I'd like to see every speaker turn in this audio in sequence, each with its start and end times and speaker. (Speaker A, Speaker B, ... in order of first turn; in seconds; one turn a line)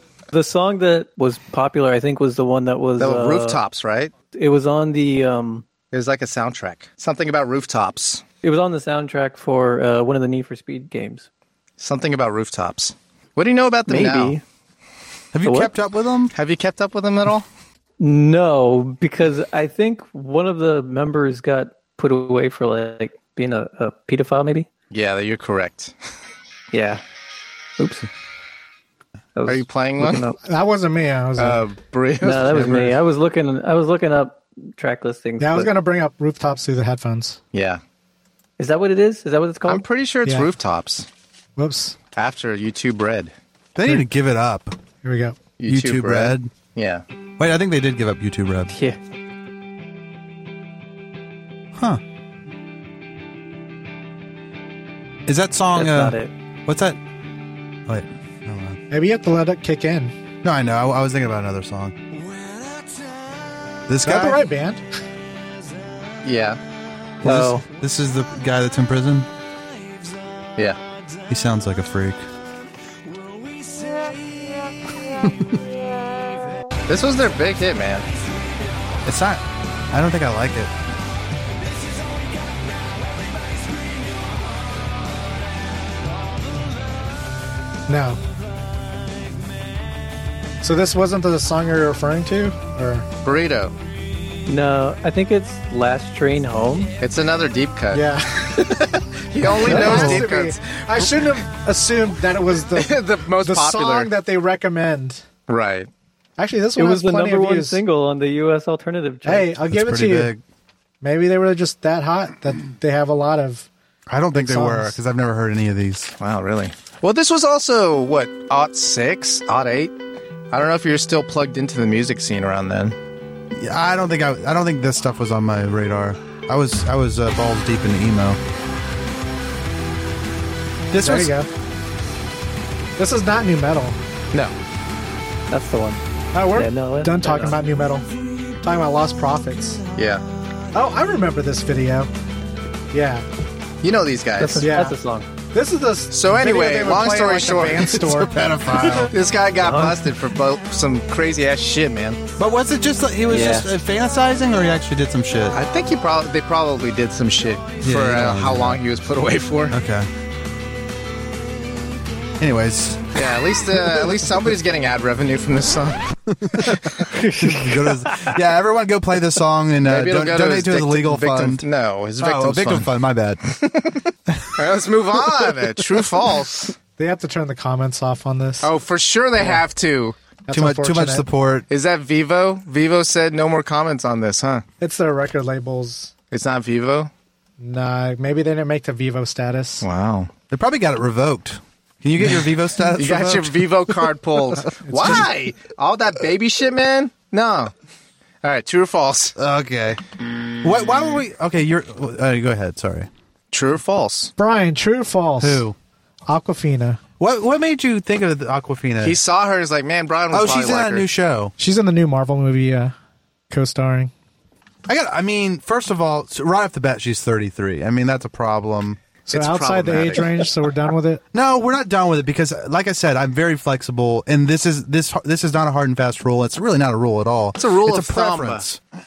Speaker A: 0.3-3.6
Speaker B: 3.0-4.1
Speaker A: 4.3-5.6
Speaker B: 5.9-8.2
Speaker A: 8.4-11.3
Speaker B: 11.8-14.4
Speaker A: 13.9-14.4
Speaker C: 15.3-16.3
Speaker A: 15.4-15.7
Speaker B: 16.3-17.5
Speaker A: 18.0-24.7
Speaker B: 24.9-25.9
Speaker A: 26.7-27.0
Speaker A: 27.8-28.1
Speaker A: 29.4-30.4
Speaker B: 29.5-30.3
Speaker D: 30.4-31.6
Speaker B: 31.4-33.0
Speaker A: 32.2-35.7
Speaker D: 35.4-37.4
Speaker B: 37.5-37.8
Speaker A: 38.6-39.9
Speaker B: 39.7-41.1
Speaker D: 41.6-42.0
Speaker B: 42.1-43.3
Speaker C: 43.8-44.8
Speaker D: 45.0-45.4
Speaker B: 45.6-47.0
Speaker C: 45.7-46.5
Speaker C: 47.4-48.7
Speaker A: 48.7-49.0
Speaker C: 51.8-52.0
Speaker C: 55.3-57.0
Speaker A: 55.7-56.3
Speaker C: 57.9-58.8
Speaker D: 58.9-60.1
Speaker C: 60.4-62.0
Speaker C: 63.9-64.4
Speaker D: 64.0-64.8
Speaker B: 66.2-66.6
Speaker A: 67.2-67.7
Speaker C: 67.2-69.3
Speaker C: 71.3-72.2
Speaker C: 75.2-75.6
Speaker B: 76.9-78.1
Speaker C: 79.0-80.7
Speaker D: 87.9-88.2
Speaker D: 90.6-93.1
Speaker B: 93.2-93.7
Speaker A: 94.5-97.0
Speaker B: 97.0-98.1
Speaker D: 97.9-105.2
Speaker B: 99.3-101.1
Speaker C: 99.7-100.3
Speaker B: 102.7-104.1
Speaker B: 105.5-105.9
Speaker D: 106.4-107.8
Speaker A: 106.8-109.5
Speaker D: 109.2-110.3
Speaker C: 109.7-110.4
Speaker D: 111.0-113.7
Speaker C: 114.1-116.1
Speaker D: 114.3-115.0
Speaker B: 116.2-120.0
Speaker B: 120.5-123.0
Speaker C: 123.5-128.4
Speaker C: 130.9-131.3
Speaker D: 131.0-131.5
Speaker D: 133.0-134.0
Speaker A: 135.5-136.0
Speaker D: 136.3-139.8
Speaker A: 136.5-137.6
Speaker B: 140.0-140.2
Speaker D: 140.7-142.1
Speaker D: 142.9-143.3
Speaker B: 143.8-144.7
Speaker A: 144.4-145.3
Speaker D: 144.6-144.9
Speaker D: 145.5-148.4
Speaker B: 146.1-148.0
Speaker C: 147.9-149.1
Speaker B: 149.1-152.2
Speaker A: 149.6-150.0
Speaker C: 152.4-155.6
Speaker A: 153.3-153.7
Speaker B: 155.5-159.8
Speaker C: 157.8-158.8
Speaker C: 159.7-160.1
Speaker C: 162.4-163.1
Speaker B: 163.2-166.0
Speaker C: 166.3-166.8
Speaker B: 166.6-167.0
Speaker A: 167.1-168.3
Speaker C: 167.3-171.7
Speaker B: 169.8-172.9
Speaker C: 172.2-173.4
Speaker B: 173.5-176.8
Speaker D: 177.0-178.7
Speaker B: 178.6-180.2
Speaker D: 180.5-181.3
Speaker C: 180.5-181.7
Speaker B: 181.7-184.7
Speaker D: 184.8-186.1
Speaker B: 186.3-187.1
Speaker D: 187.6-189.9
Speaker B: 189.8-190.3
Speaker C: 190.5-193.7
Speaker B: 193.0-197.7
Speaker D: 194.8-195.3
Speaker B: 198.4-199.4
Speaker C: 199.4-200.0
Speaker C: 200.6-203.1
Speaker B: 203.5-204.3
Speaker D: 204.4-205.6
Speaker C: 205.4-205.8
Speaker D: 206.3-207.0
Speaker C: 207.2-209.2
Speaker B: 209.0-211.1
Speaker C: 210.3-211.5
Speaker D: 211.6-212.9
Speaker D: 213.5-214.1
Speaker C: 214.9-219.0
Speaker D: 219.3-221.2
Speaker B: 219.3-220.5
Speaker C: 221.3-228.8
Speaker B: 227.6-228.6